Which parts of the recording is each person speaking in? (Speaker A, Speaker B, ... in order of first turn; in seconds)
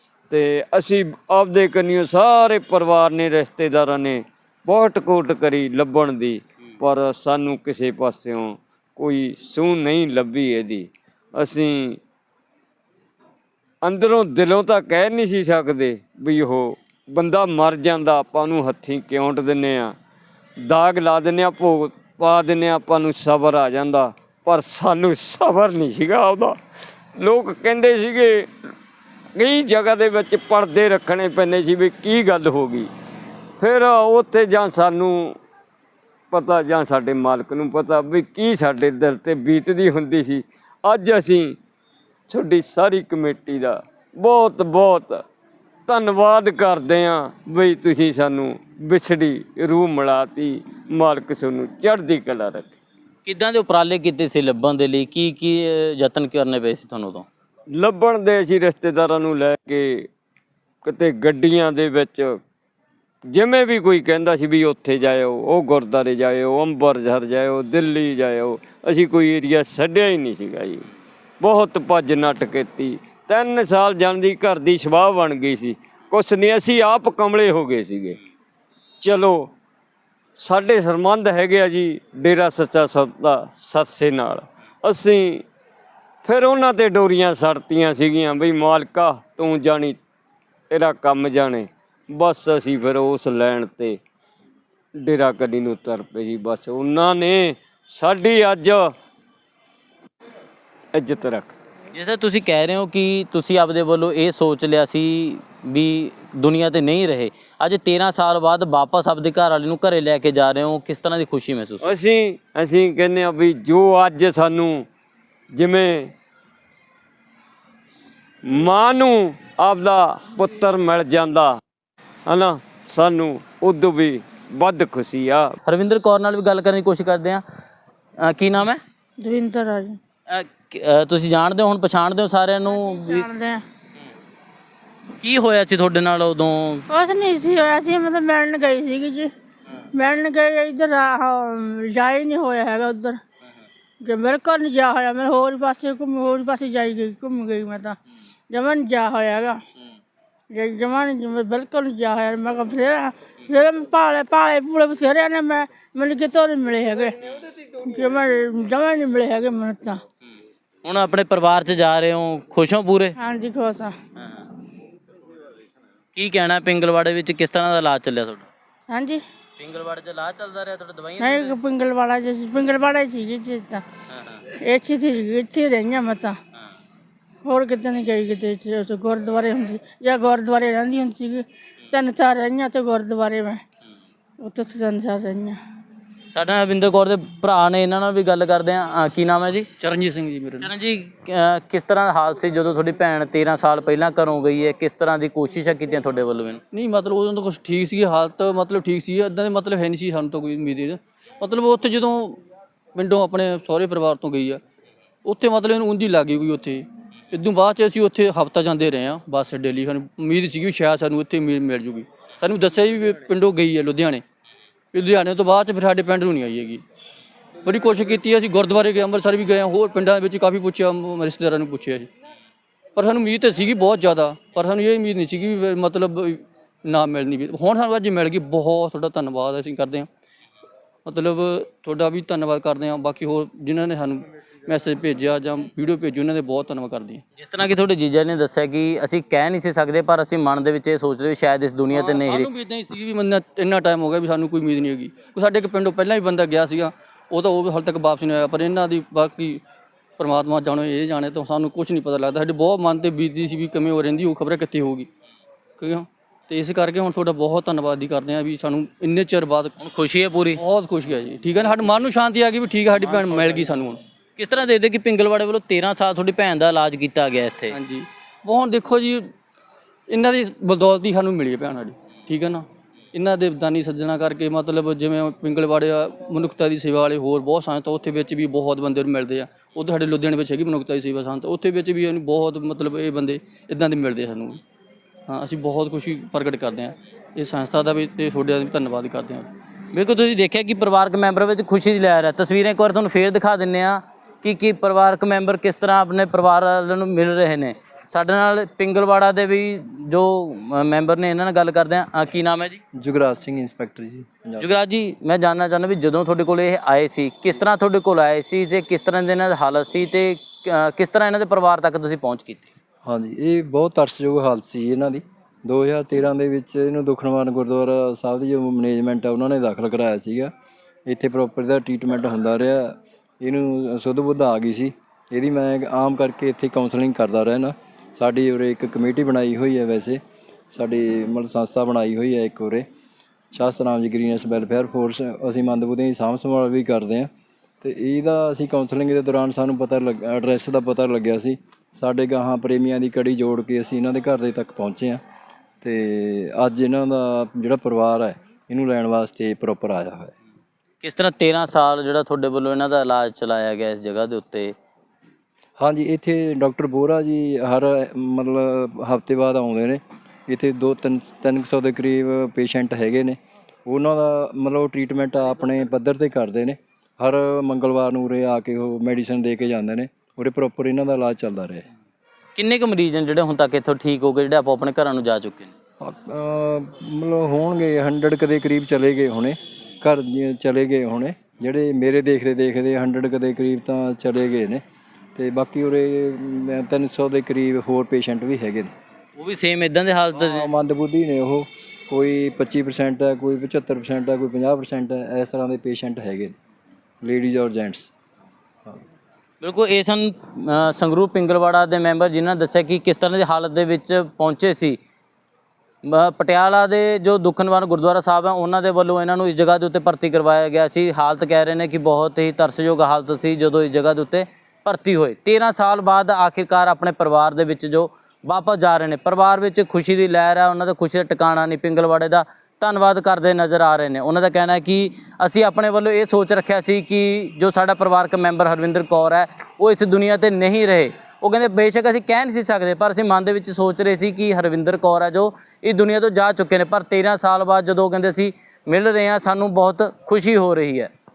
Speaker A: 0.3-12.0, 13.8-20.0, 20.7-26.6, 27.2-28.5, 29.4-32.9, 33.6-35.4, 36.3-41.6, 42.3-45.2, 45.9-52.8, 57.7-60.1, 60.8-62.4, 63.3-70.9, 71.4-78.2, 79.0-79.5, 80.4-85.5, 86.2-90.0, 90.7-94.0, 95.0-98.8, 100.9-101.6, 111.8-114.9, 115.5-116.1, 118.5-121.6, 122.3-125.5
Speaker B: 53.2-57.3, 101.9-111.9, 125.7-127.4, 128.2-128.8, 130.3-133.3, 135.2-136.9, 160.8-163.2, 166.2-168.5, 169.6-171.6, 186.3-189.7, 190.6-196.6, 237.4-242.5, 259.8-260.6, 264.4-267.8, 289.9-302.8, 304.6-312.7, 351.0-354.7, 372.6-375.7, 389.4-390.7, 399.6-405.0, 406.1-441.1
Speaker C: 129.2-130.0, 132.8-133.6, 136.9-139.3, 139.9-143.2, 144.1-148.0, 148.5-149.6, 150.5-160.0, 163.2-163.9, 168.9-169.2, 171.2-173.8, 174.6-176.4, 177.4-183.6, 184.4-185.6
Speaker D: 189.8-190.7, 196.7-202.4, 202.9-204.6, 205.2-214.2, 214.9-216.8, 217.6-222.1, 223.0-230.1, 231.1-237.2, 241.9-249.6, 250.2-255.1, 255.8-259.8, 260.6-264.0, 267.7-269.3, 270.1-284.6, 285.3-289.5
Speaker E: 303.0-304.7, 313.1-320.5, 321.1-330.2, 330.7-332.9, 333.5-337.3, 337.8-345.2, 345.8-350.3, 355.8-371.9, 376.0-384.8, 385.4-388.9, 390.4-396.6, 397.2-398.1